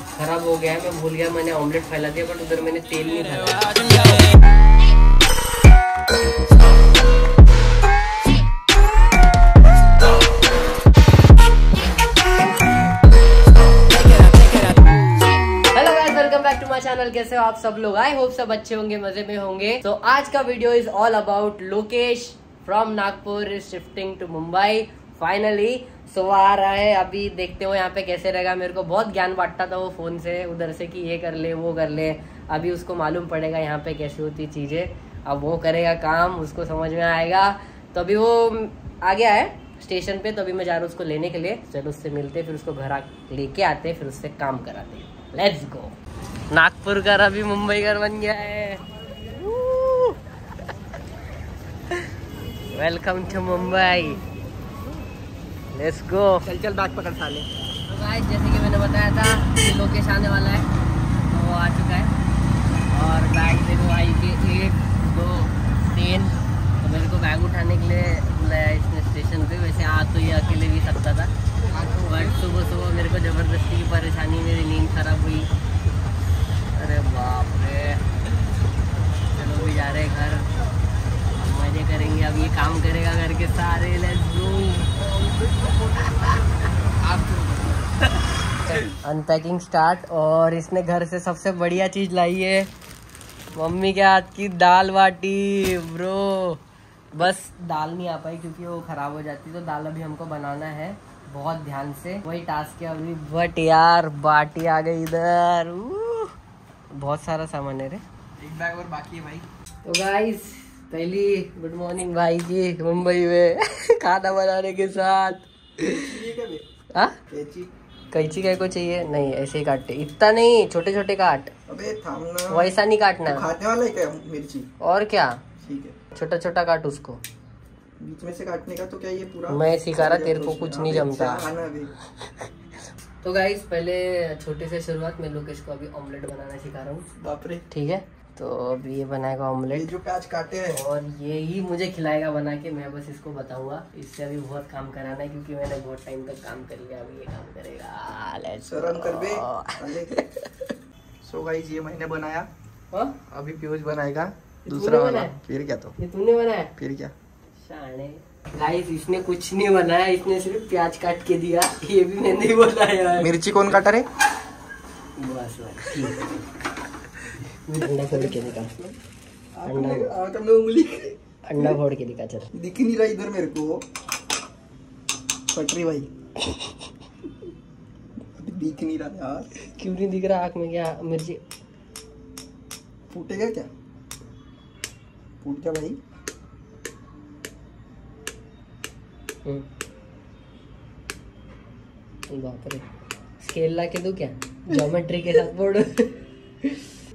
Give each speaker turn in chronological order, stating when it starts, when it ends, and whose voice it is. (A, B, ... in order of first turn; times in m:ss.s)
0:00.1-0:04.3 A
0:13.9-0:45.9 A
0:46.5-0:50.2 A
0:52.7-0:54.2 A
0:55.7-0:56.4 A
0:56.4-0:57.5 B
0:57.9-1:00.7 A
1:01.2-1:02.1 A
1:02.9-1:15.5 A
1:11.7-1:12.4 B
1:16.7-1:18.2 A
1:19.3-1:20.5 A
1:21.3-1:25.0 A
1:25.2-1:27.9 B
1:28.6-1:32.7 A
1:33.5-1:36.6 A
1:37.1-1:46.3 A
1:46.9-1:48.0 A
1:48.4-1:49.4 B
1:49.8-1:56.2 A
1:56.0-1:56.6 B
1:57.3-1:57.7 B
1:58.1-2:01.5 A
2:01.6-2:02.7 B
2:02.5-2:03.4 A
2:03.2-2:04.7 B
2:04.8-2:05.4 A
2:05.6-2:06.0 B
2:06.1-2:07.2 A
2:08.0-2:11.9 B
2:09.5-2:11.5 A
2:12.2-2:12.5 A
2:13.2-2:17.1 A
2:17.2-2:17.6 B
2:17.7-2:19.9 A
2:19.7-2:20.8 B
2:20.7-2:30.7 A
2:28.7-2:30.1 B
2:31.2-2:32.5 B
2:32.9-2:33.2 A
2:33.3-2:36.0 B
2:34.6-2:35.4 A
2:36.0-2:36.7 A
2:36.8-2:37.1 B
2:37.6-2:43.3 A
2:43.2-2:44.1 B
2:45.2-2:46.4 A
2:47.5-2:48.7 A
2:48.0-2:49.0 B
2:49.6-2:51.8 B
2:49.6-2:50.1 A
2:51.4-2:52.5 A
2:52.5-2:53.8 B
2:55.5-2:56.1 B
2:56.4-2:56.7 A
2:58.3-2:59.5 B
2:59.8-3:01.4 A
3:03.1-3:03.7 B
3:05.4-3:06.0 B
3:12.3-3:12.9 A
3:13.4-3:17.0 A